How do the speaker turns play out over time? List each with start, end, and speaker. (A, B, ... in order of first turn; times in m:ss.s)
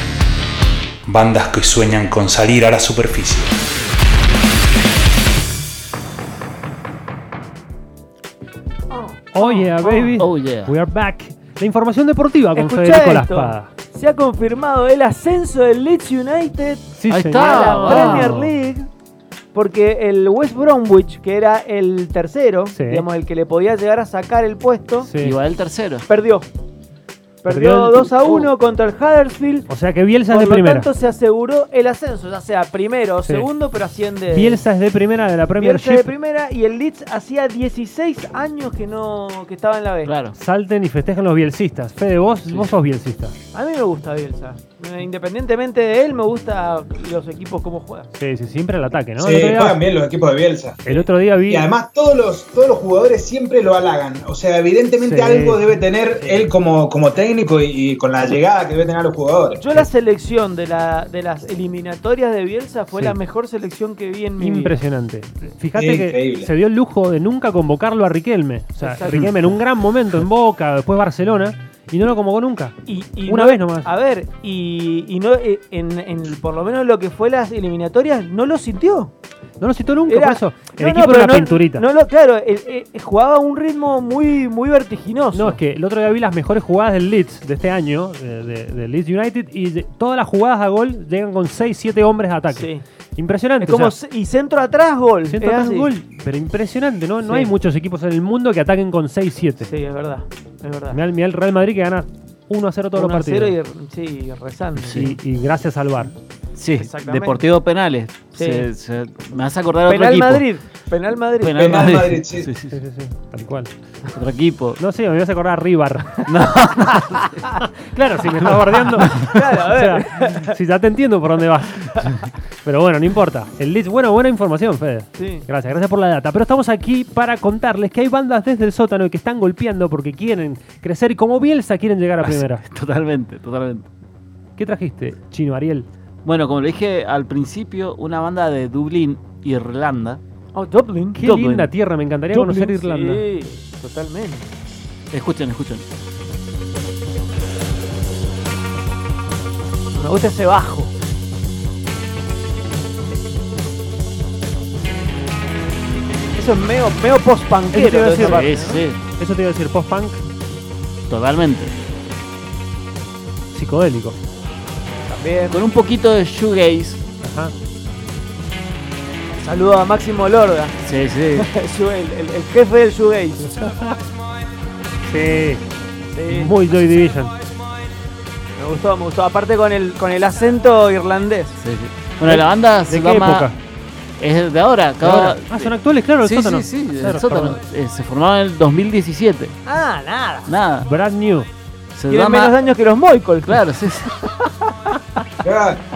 0:01.0-0:03.5 A
0:08.9-0:10.2 B
0:09.3-0:13.7 C
0:10.2-0:10.7 D
0:12.5-0:18.9 B
0:17.0-0:18.5 C
0:17.1-0:18.4 D
0:19.5-0:25.1 B
0:22.7-0:23.1 C
0:25.0-0:25.3 C
0:25.2-0:26.0 D
0:26.1-0:26.5 B
0:27.4-0:29.7 B
0:27.5-0:28.5 C
0:29.7-0:30.9 C
0:30.3-0:34.6 B
0:34.3-0:36.1 C
0:35.6-0:40.1 B
0:40.0-0:40.4 D
0:40.4-0:43.3 C
0:43.5-0:48.1 B
0:48.2-0:49.8 C
0:49.2-0:50.8 E
0:50.8-0:51.7 C
0:51.5-0:59.6 E
0:55.0-0:55.6 C
0:56.1-0:56.5 B
0:59.6-1:04.8 B
1:02.9-1:03.2 C
1:04.4-1:13.9 C
1:05.7-1:06.5 E
1:08.8-1:09.2 B
1:12.8-1:19.1 B
1:19.6-1:21.9 C
1:20.0-1:25.6 B
1:25.3-1:33.9 C
1:32.5-1:32.8 B
1:33.6-1:35.9 B
1:35.2-1:39.7 C
1:37.2-1:37.5 B
1:39.6-1:41.0 B
1:40.9-1:43.6 C
1:42.9-1:45.0 B
1:44.8-1:46.1 C
1:44.8-1:45.1 D
1:46.5-1:50.4 D
1:46.8-1:47.4 B
1:48.3-1:48.7 B
1:49.8-1:51.6 B
1:51.4-1:52.7 D
1:51.6-1:52.5 E
1:52.7-1:53.7 C
1:54.1-1:54.8 D
1:54.8-1:56.2 C
1:56.2-1:57.2 D
1:57.2-1:57.5 B
1:57.6-2:02.0 C
1:59.0-1:59.3 D
1:59.2-2:00.6 B
2:02.6-2:12.6 C
2:05.2-2:05.5 B
2:12.2-2:13.9 D
2:14.6-2:15.9 C
2:16.2-2:20.2 D
2:20.5-2:21.2 B
2:21.1-2:23.3 C
2:21.2-2:21.7 D
2:22.3-2:24.5 B
2:25.1-2:25.8 D
2:29.9-2:30.9 B
2:36.3-2:38.8 B
2:37.7-2:38.5 C
2:38.2-2:39.0 D
2:39.2-2:40.2 C
2:41.1-2:41.7 D
2:43.5-2:44.2 C
2:45.1-2:45.6 B
2:45.5-2:47.0 D
2:47.2-2:47.5 C
2:49.4-2:50.7 B
2:50.8-2:51.5 D
2:51.3-2:53.6 B
2:53.6-2:53.9 C
2:55.1-2:55.6 C
2:56.1-2:56.5 B
2:56.3-2:57.3 C
2:58.6-3:01.6 B
3:01.6-3:03.5 D
3:02.9-3:03.6 C
3:04.2-3:09.5 D
3:05.0-3:07.6 C
3:09.6-3:10.5 B
3:10.5-3:10.9 D
3:10.8-3:11.5 C
3:11.9-3:12.5 D
3:12.1-3:13.6 B
3:13.4-3:14.1 D
3:14.6-3:15.2 B
3:15.4-3:15.8 E